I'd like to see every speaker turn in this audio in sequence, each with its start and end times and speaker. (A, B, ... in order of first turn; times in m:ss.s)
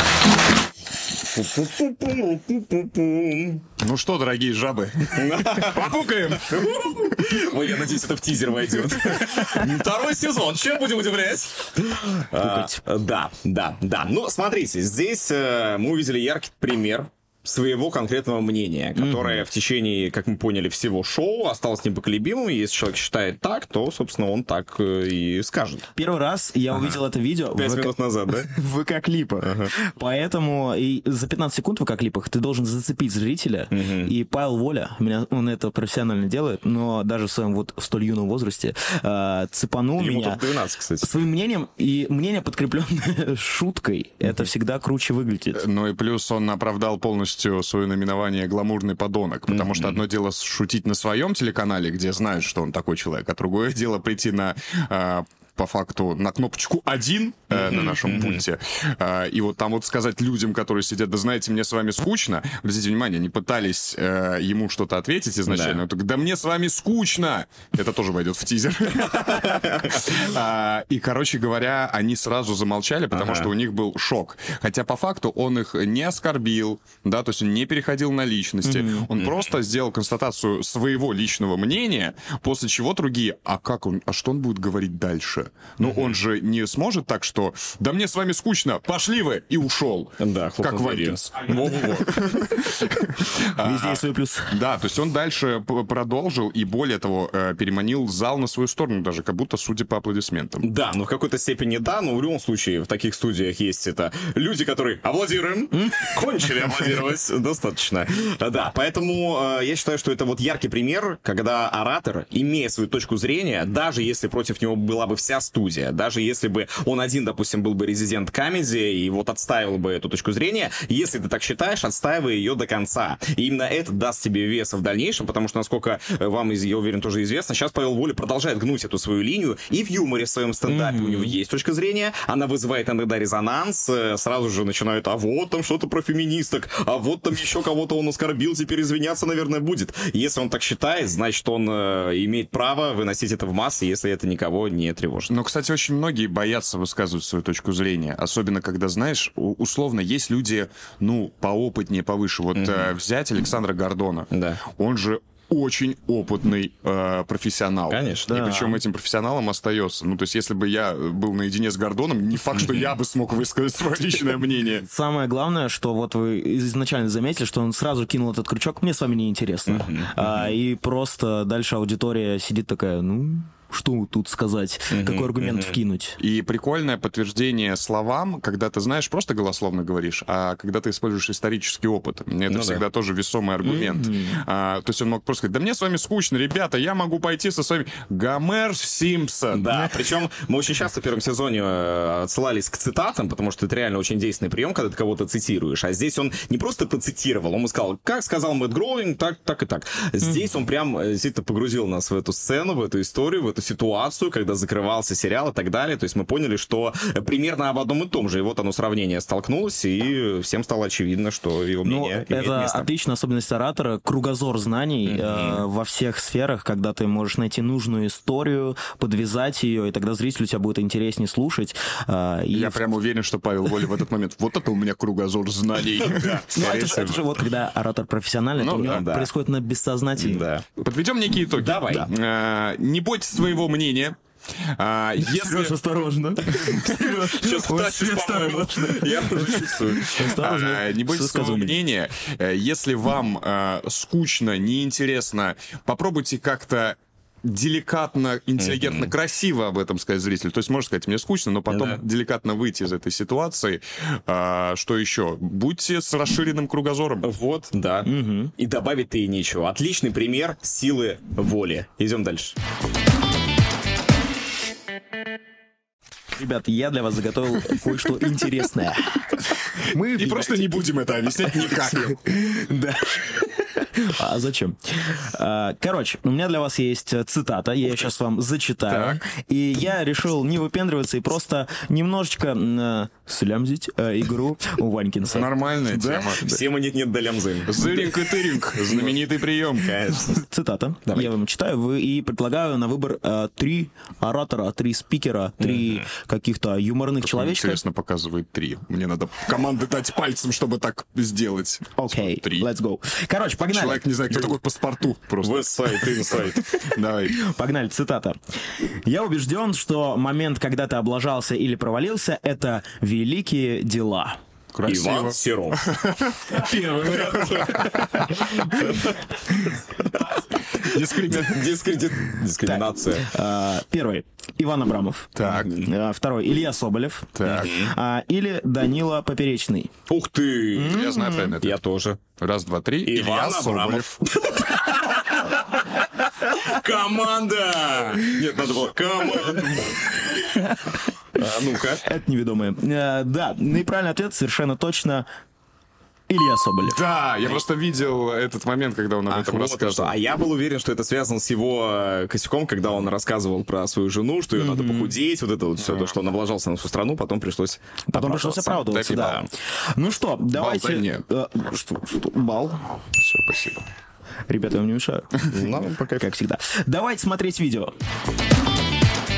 0:01.3-0:03.6 A
0:03.8-0:07.0 B
0:05.1-0:25.9 A
0:12.4-0:12.8 C
0:19.0-0:19.4 C
0:26.0-0:40.4 C
0:26.7-0:27.0 A
0:27.5-0:28.5 A
0:29.4-0:29.7 A
0:33.7-0:34.1 A
0:40.0-0:41.1 A
0:41.0-0:45.6 C
0:45.5-1:40.7 B
0:49.5-0:50.0 A
0:57.5-0:58.4 A
1:05.5-1:05.8 A
1:09.5-1:10.0 A
1:13.1-1:13.5 A
1:18.6-1:19.1 C
1:19.2-1:19.5 A
1:25.8-1:26.1 A
1:30.2-1:32.2 A
1:33.6-1:34.5 C
1:40.6-2:25.3 A
2:10.7-2:11.4 C
2:25.3-2:44.9 B
2:32.5-2:32.9 A
2:34.3-2:34.6 A
2:37.9-2:38.3 A
2:38.3-2:38.8 C
2:44.9-2:56.2 C
2:49.7-2:50.5 A
2:54.9-2:55.8 A
2:56.2-3:09.7 B
3:02.5-3:02.8 A
3:03.6-3:04.4 C
3:09.5-3:32.9 A
3:31.8-3:42.8 C
3:35.0-3:35.6 A
3:42.5-3:47.2 B
3:45.9-3:47.1 A
3:46.5-3:50.4 C
3:48.6-3:49.0 B
3:48.7-3:49.3 A
3:50.2-3:50.7 A
3:50.8-3:54.2 B
3:51.6-3:52.1 A
3:54.8-3:55.8 B
3:55.4-4:01.8 C
3:57.3-4:00.2 A
4:00.2-4:17.3 B
4:08.6-4:09.1 A
4:11.7-4:12.0 A
4:17.2-4:22.6 A
4:18.0-4:18.5 C
4:26.4-4:30.8 C
4:30.1-4:32.2 B
4:31.5-4:46.4 C
4:38.9-4:39.2 B
4:45.3-4:46.6 B
4:46.4-4:49.2 A
4:47.7-4:50.0 B
4:49.8-4:50.4 A
4:50.3-4:57.8 C
4:55.6-4:56.0 A
4:57.2-5:02.7 B
5:02.0-5:04.0 C
5:03.7-5:07.4 B
5:05.4-5:06.6 A
5:07.3-5:08.4 C
5:09.0-5:14.4 C
5:14.7-5:18.6 B
5:14.9-5:15.9 A
5:16.5-5:19.2 A
5:20.7-5:23.2 A
5:20.8-5:21.7 B
5:22.6-5:29.9 C
5:25.4-5:25.8 B
5:25.4-5:25.7 A
5:27.4-5:27.7 B
5:27.5-5:27.9 A
5:30.1-5:31.0 A
5:30.8-5:31.5 C
5:30.8-5:31.8 B
5:31.6-5:32.2 A
5:32.4-5:34.2 B
5:33.0-5:40.5 A
5:41.4-5:42.0 A
5:42.0-5:45.3 C
5:46.3-5:47.0 C
5:46.8-5:50.2 B
5:49.3-5:59.5 A
5:54.6-5:55.2 C
5:55.8-5:56.1 B
5:58.1-5:59.4 C
5:58.8-5:59.4 B
6:00.0-6:02.8 C
6:00.5-6:01.2 B
6:03.2-6:03.8 B
6:04.5-6:05.4 C
6:05.5-6:06.3 A
6:06.1-6:07.9 C